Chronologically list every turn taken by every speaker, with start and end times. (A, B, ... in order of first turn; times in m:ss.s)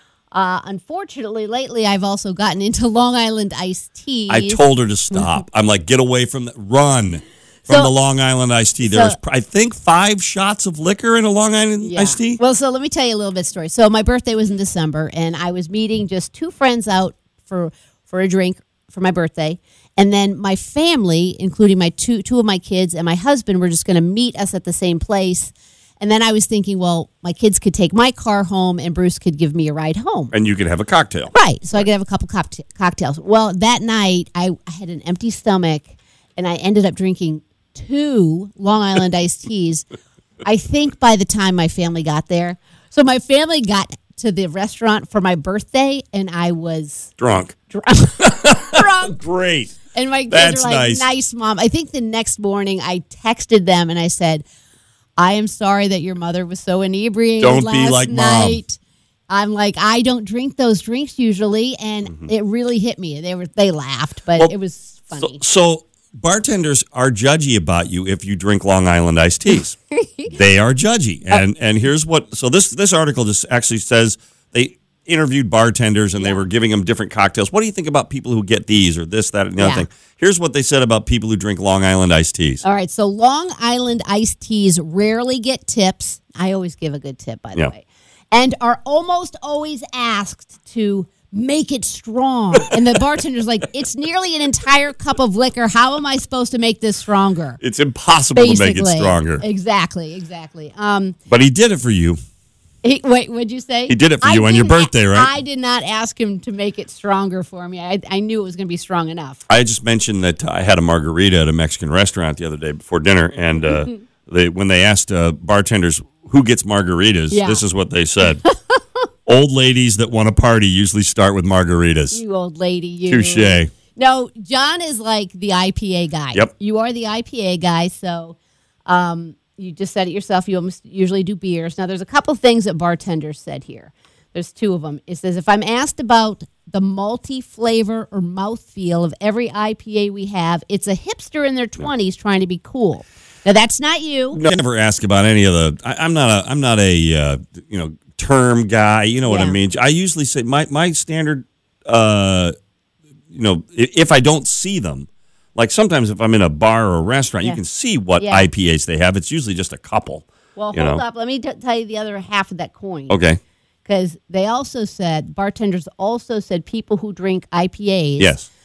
0:00.3-0:04.6 A
0:04.3-0:12.4 B
0:07.7-0:07.9 A
0:08.8-0:09.2 A
0:11.8-0:30.3 A
0:30.3-0:31.3 B
0:31.3-0:39.9 A
0:40.4-0:47.1 A
0:47.2-0:47.6 B
0:47.7-0:49.2 A
0:48.2-0:49.7 B
0:49.9-0:54.4 A
0:50.3-0:51.1 B
0:55.2-0:58.8 A
0:57.4-0:58.6 B
0:59.3-1:05.4 A
1:05.2-1:09.8 B
1:09.9-1:10.4 A
1:10.3-1:22.6 B
1:16.2-1:16.4 A
1:19.6-1:19.9 A
1:22.6-1:37.6 A
1:37.6-1:39.4 B
1:38.4-1:41.2 A
1:41.3-1:42.2 B
1:42.8-1:49.4 A
1:43.9-1:45.3 B
1:49.5-1:58.4 B
1:57.3-1:57.6 A
1:58.4-1:58.8 A
1:59.3-2:02.2 B
2:02.1-2:24.4 A
2:03.1-2:03.7 B
2:24.3-2:32.5 B
2:29.3-2:29.6 A
2:33.3-2:41.0 B
2:38.2-2:38.5 A
2:40.6-2:43.2 A
2:43.1-2:43.4 B
2:43.8-2:48.4 A
2:48.2-2:48.5 B